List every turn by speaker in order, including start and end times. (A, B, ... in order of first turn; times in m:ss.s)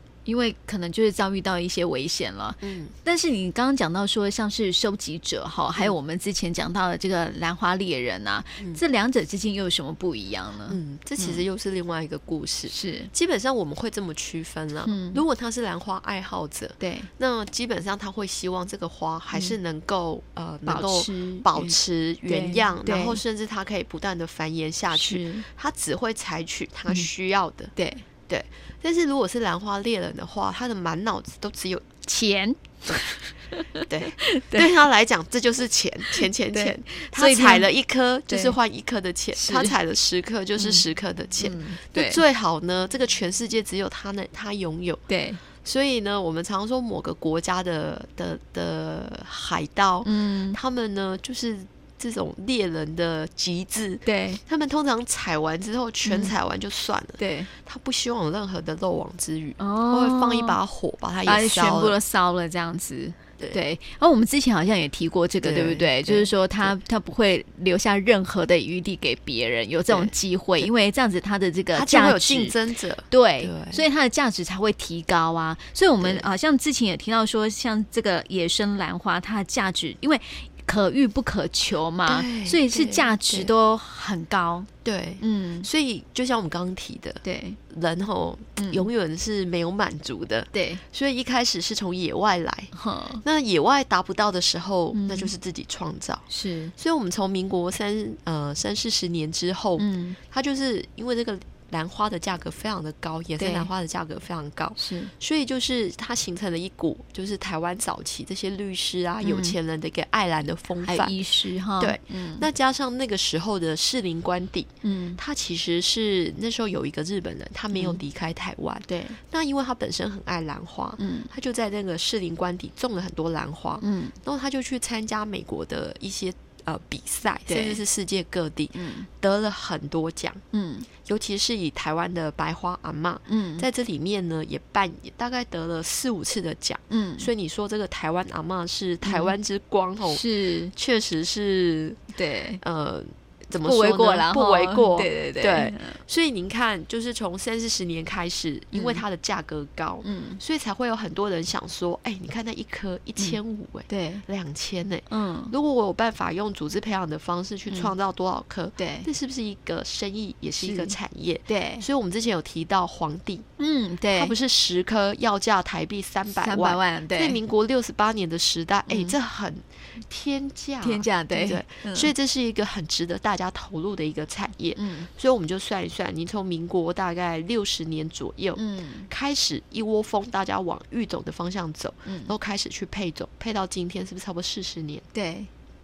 0:00.2-0:11.4 A
0:02.6-0:02.9 B
0:10.7-0:27.7 B
0:12.7-0:13.1 A
0:14.8-0:15.2 A
0:16.8-0:17.1 A
0:20.6-0:23.2 A
0:24.9-0:25.4 A
0:27.8-0:28.0 A
0:28.3-0:31.8 B
0:32.0-0:34.7 A
0:33.9-0:45.0 B
0:36.1-0:37.7 A
0:38.3-0:38.6 A
0:39.3-0:39.7 A
0:40.6-0:40.8 A
0:41.4-0:42.2 A
0:45.1-0:45.4 A
0:45.5-1:02.0 B
0:50.0-0:50.6 A
0:54.0-0:54.4 A
0:56.0-0:56.3 A
0:57.2-0:57.5 A
0:59.6-1:00.6 A
1:01.2-1:12.5 A
1:05.4-1:06.7 B
1:09.9-1:10.7 B
1:11.7-1:13.8 B
1:13.1-1:24.7 A
1:16.0-1:16.2 B
1:22.1-1:23.5 B
1:24.8-1:51.2 B
1:25.2-1:25.7 A
1:27.2-1:27.6 A
1:28.6-1:28.9 A
1:30.5-1:30.8 A
1:32.7-1:33.2 A
1:34.9-1:35.3 A
1:36.3-1:36.7 A
1:39.8-1:40.2 A
1:43.4-1:43.7 A
1:44.8-1:45.1 A
1:49.2-1:49.6 A
1:50.8-1:52.5 A
1:51.8-2:10.4 B
1:54.8-1:55.2 A
1:57.7-1:58.0 A
1:58.9-1:59.2 A
2:01.0-2:01.3 A
2:03.8-2:04.2 A
2:07.5-2:07.8 A
2:08.7-2:09.1 A
2:10.5-2:10.9 A
2:11.0-2:22.0 B
2:13.3-2:13.6 A
2:16.9-2:17.3 A
2:19.0-2:19.3 A
2:20.0-2:20.7 A
2:22.1-2:22.6 A
2:22.6-2:43.4 B
2:23.6-2:26.0 A
2:28.7-2:29.0 A
2:30.0-2:30.4 A
2:33.9-2:34.2 A
2:35.1-2:35.5 A
2:38.8-2:39.1 A
2:40.6-2:41.0 A
2:41.5-2:41.8 A
2:43.6-2:44.3 A
2:44.1-3:05.0 B
2:46.4-2:47.4 A
2:48.9-2:49.2 A
2:50.8-2:52.1 A
2:54.7-2:55.1 A
2:58.6-2:59.1 A
3:02.0-3:02.3 A
3:05.1-3:05.5 A